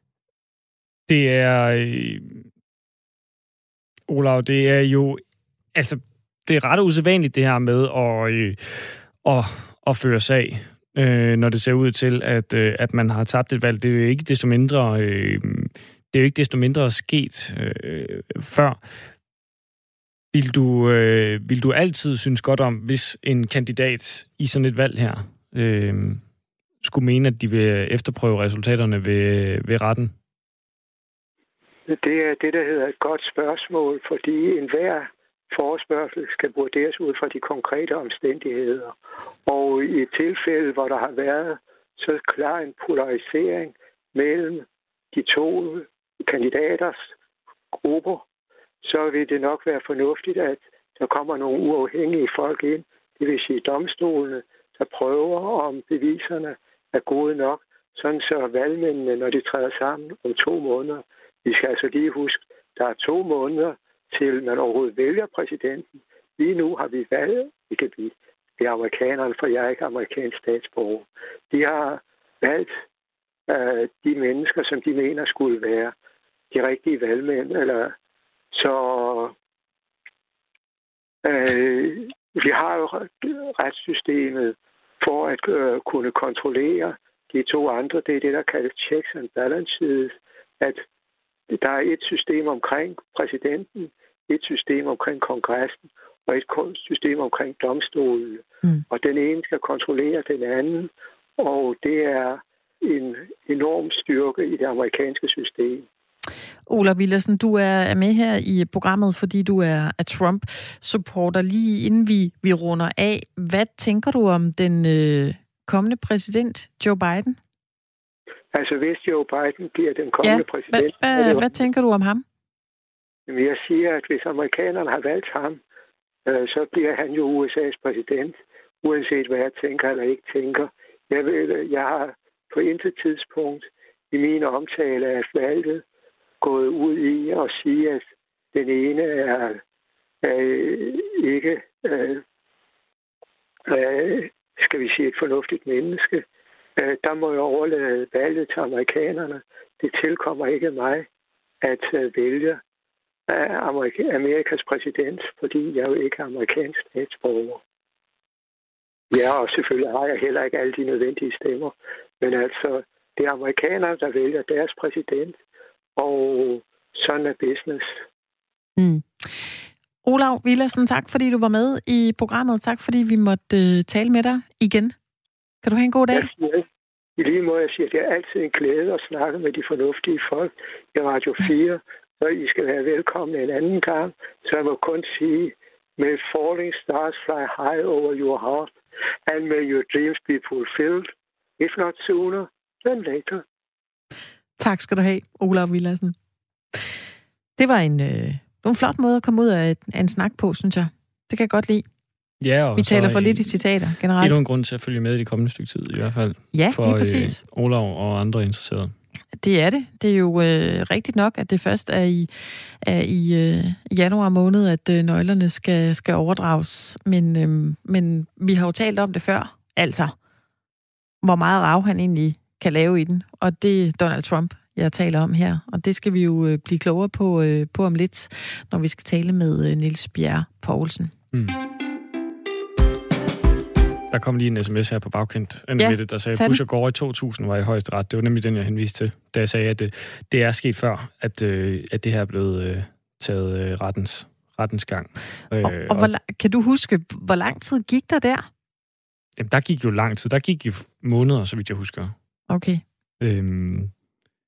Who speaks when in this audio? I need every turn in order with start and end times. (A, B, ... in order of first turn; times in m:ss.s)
0:01.1-0:02.4 A
0:04.1-0:05.2 A
0:05.7-0:18.8 A
0:20.3-0:26.2 A
0:26.8-0:30.1 A
0:31.9-0:47.0 B
0:47.8-0:48.2 B
0:48.8-1:12.7 B
1:13.5-1:15.9 B
1:16.5-1:17.9 B
1:18.5-1:19.3 B
1:21.2-1:30.8 B
1:31.5-1:45.9 B
1:46.7-1:57.4 C
1:58.5-2:01.6 B
2:00.2-2:02.2 C
2:03.3-2:05.6 B
2:06.3-2:15.8 B
2:16.4-2:19.6 B
2:20.2-2:22.2 B
2:23.7-2:26.2 B
2:26.8-2:31.1 B
2:31.6-2:32.6 B
2:33.3-2:37.6 B
2:39.1-2:45.4 B
2:46.0-2:48.0 B
2:48.8-2:49.5 C
2:50.0-2:55.0 C
2:55.6-2:56.3 C
2:56.1-2:56.6 B
2:57.2-3:08.7 B
3:09.3-3:13.4 B
3:14.6-3:16.2 C
3:17.6-3:21.8 C
3:22.4-3:23.6 A
3:22.8-3:24.4 C
3:24.2-3:28.9 A
3:26.5-3:27.4 C
3:29.4-3:32.3 C
3:32.8-3:40.2 C
3:41.2-3:51.1 C
3:51.3-3:51.6 A
3:54.1-4:06.1 A
3:55.8-3:56.6 C
4:05.6-4:08.5 C
4:09.4-4:12.1 A
4:12.5-4:12.8 C
4:13.2-4:13.9 A